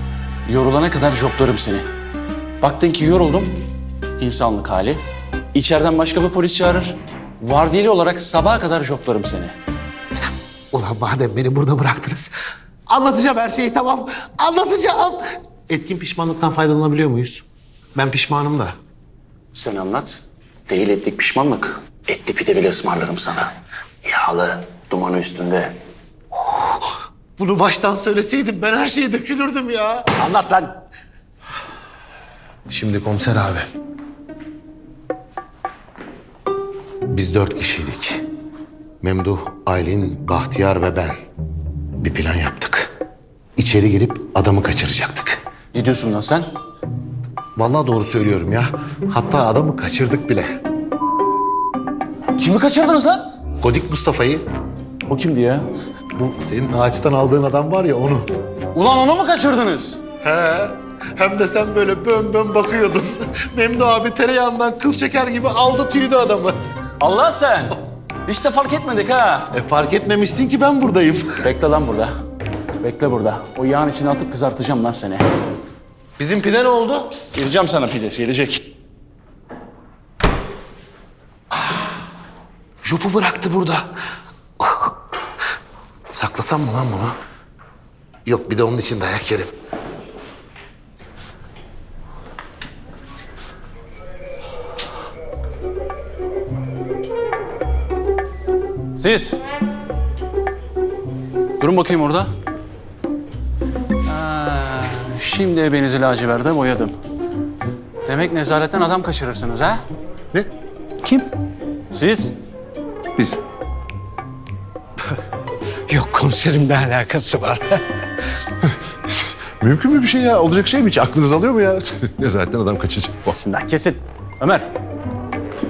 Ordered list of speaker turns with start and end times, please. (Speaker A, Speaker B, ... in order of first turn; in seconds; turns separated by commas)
Speaker A: 0.5-1.9, Speaker A: 2.6-3.6, Speaker A: 4.2-5.0, Speaker A: 5.5-9.6, Speaker B: 10.7-12.3, Speaker B: 12.9-18.8, Speaker A: 19.5-23.5, Speaker A: 24.0-25.8, Speaker B: 27.4-30.1, Speaker A: 30.1-30.8, Speaker B: 32.7-33.7, Speaker B: 37.1-38.2, Speaker B: 39.0-41.2, Speaker B: 42.0-42.9, Speaker B: 43.6-45.4, Speaker A: 45.7-46.5, Speaker B: 47.6-50.6, Speaker A: 52.3-53.2, Speaker B: 53.6-54.4, Speaker A: 55.1-55.7, Speaker B: 56.2-58.3, Speaker A: 58.7-60.0, Speaker B: 60.2-66.6, Speaker A: 67.0-69.5, Speaker B: 69.5-71.3, Speaker A: 71.4-72.1, Speaker A: 72.8-75.3, Speaker B: 76.2-77.1, Speaker A: 77.3-78.7, Speaker B: 82.8-83.9, Speaker B: 84.6-84.9, Speaker B: 86.1-87.2, Speaker B: 88.2-89.5, Speaker A: 99.0-99.4, Speaker A: 101.6-102.3, Speaker A: 104.0-106.9, Speaker A: 108.0-109.8, Speaker C: 111.0-111.3, Speaker A: 111.9-112.3, Speaker C: 115.9-117.8, Speaker D: 119.1-123.3, Speaker A: 123.3-124.7